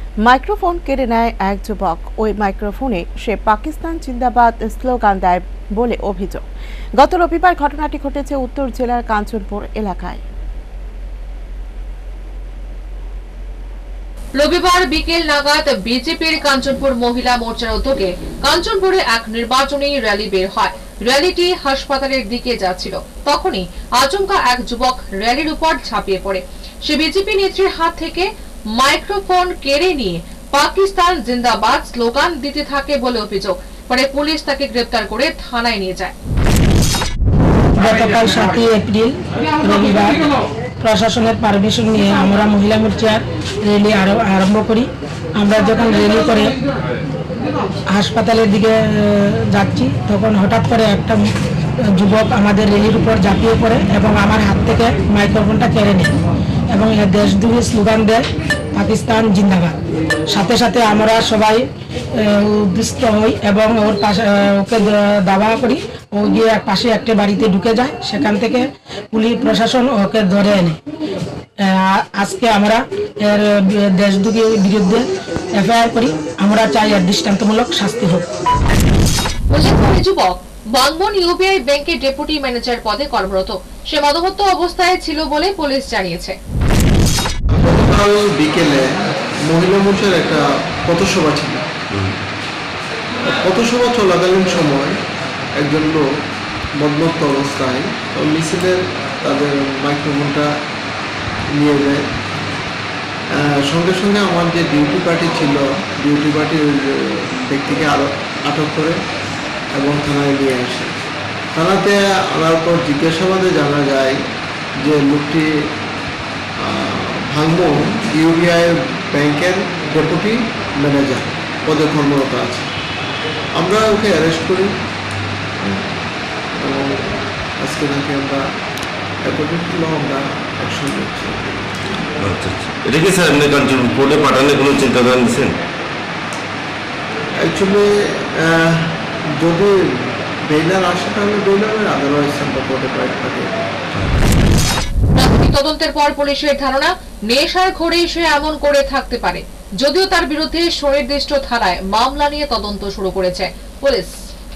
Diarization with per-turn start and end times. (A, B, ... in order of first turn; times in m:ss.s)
0:00.2-0:06.4 A
0:07.0-0:10.2 A
0:14.4-0:36.1 B
0:37.8-0:40.3 C
0:40.8-0:46.6 C
0:47.9-0:51.2 C
0:51.9-0:56.1 C
0:56.7-0:59.8 C
1:00.3-1:10.8 C
1:11.6-1:18.2 C
1:19.5-1:26.4 B
1:27.5-1:28.9 D
1:29.5-1:31.6 D
1:33.3-1:35.0 D
1:35.6-1:36.0 D
1:36.8-1:40.5 D
1:41.6-1:42.1 D
1:43.4-1:49.0 D
1:49.8-1:50.9 D
1:51.6-1:54.2 D
1:54.8-1:55.5 D
1:56.6-2:02.7 D
2:03.6-2:04.7 D
2:05.6-2:05.9 D
2:06.6-2:08.4 D
2:09.2-2:12.0 D
2:12.2-2:15.5 E
2:17.4-2:23.5 D
2:23.9-2:24.4 E
2:25.2-2:34.2 B